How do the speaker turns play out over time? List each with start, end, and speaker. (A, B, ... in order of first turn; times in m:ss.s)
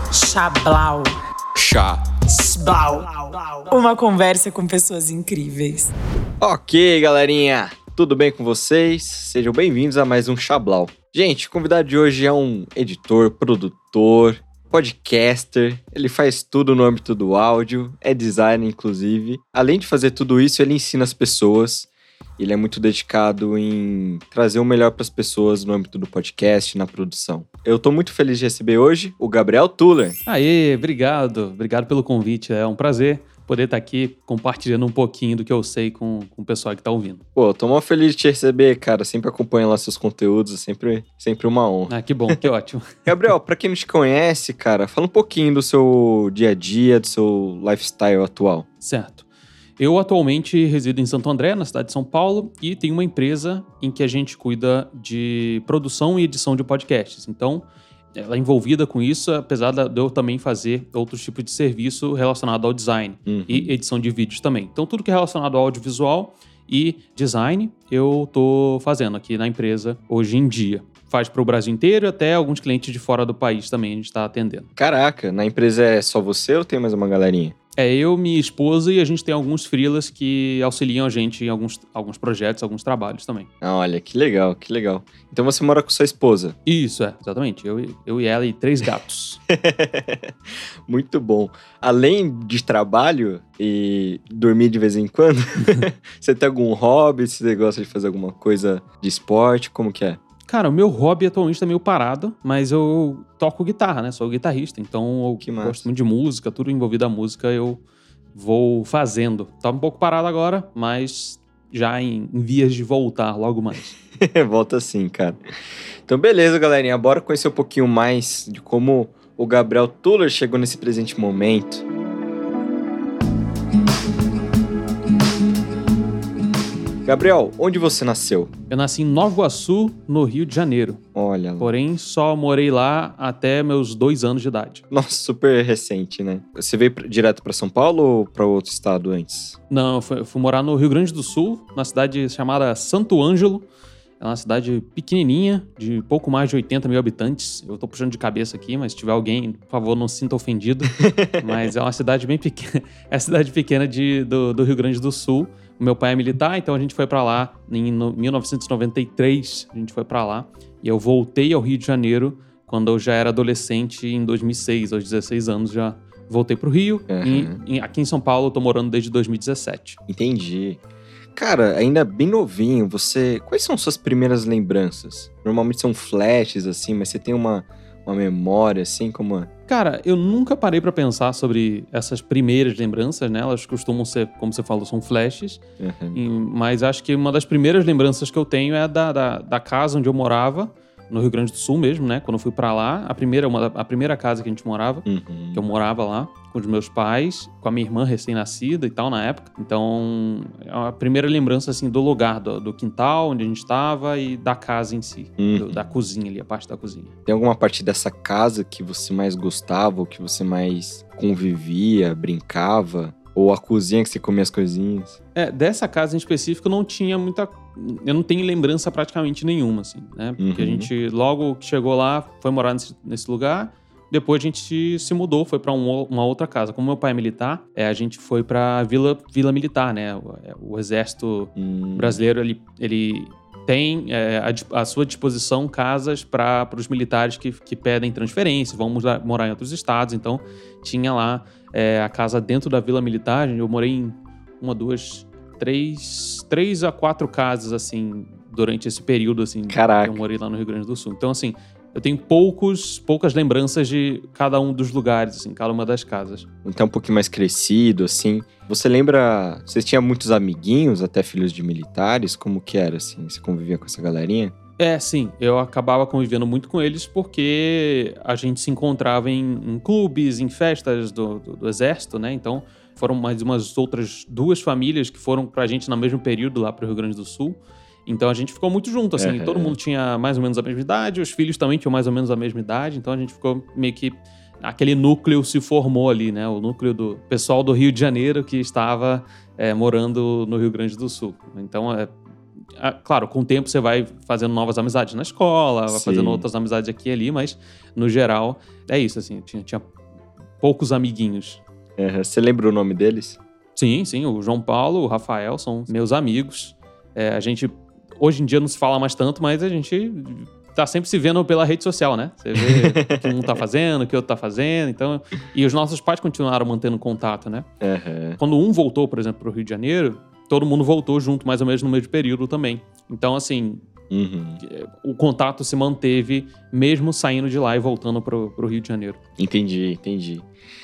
0:00.1-0:01.1 A
0:01.5-0:02.0 B
0:02.3-0:05.9 A
0:06.4-0:30.2 B
0:30.2-0:37.2 C
0:37.3-0:42.3 B
0:41.9-0:43.0 C
0:43.0-0:48.6 B
0:48.8-0:49.2 C
0:49.8-1:14.7 C
1:03.3-1:03.7 B
1:14.8-1:17.5 B
1:17.8-1:23.5 C
1:23.6-1:26.6 B
1:26.6-1:29.4 C
1:29.5-1:30.3 B
1:30.8-1:40.2 B
1:40.5-1:47.8 C
1:45.4-1:45.8 B
1:48.3-1:54.0 C
1:54.2-1:55.4 B
1:56.0-2:01.8 B
2:07.0-2:08.5 B
2:08.7-2:11.0 C
2:11.1-2:11.7 B
2:11.6-2:14.8 C
2:14.9-2:19.6 B
2:19.7-2:23.7 C
2:24.2-2:50.0 C
2:31.0-2:31.7 B
2:47.1-2:47.6 B
2:50.1-2:50.8 B
2:51.3-2:59.5 B
2:59.7-3:05.6 C
3:05.8-3:06.2 B
3:06.1-3:27.1 C
3:15.0-3:15.6 B
3:25.4-3:25.8 B
3:27.2-3:35.2 B
3:35.3-4:16.4 C
3:40.4-3:40.9 B
3:51.6-3:52.2 B
4:09.7-4:10.2 B
4:16.6-4:24.5 B
4:24.8-4:52.1 C
4:39.2-4:39.8 B
4:52.8-4:59.8 C
4:55.9-4:56.4 B
5:00.6-5:01.6 C
5:02.0-5:03.4 B
5:03.8-5:17.7 C
5:12.6-5:13.4 B
5:17.8-5:18.4 B
5:18.4-5:23.8 C
5:24.1-5:24.6 B
5:24.6-5:29.2 C
5:29.4-5:30.4 B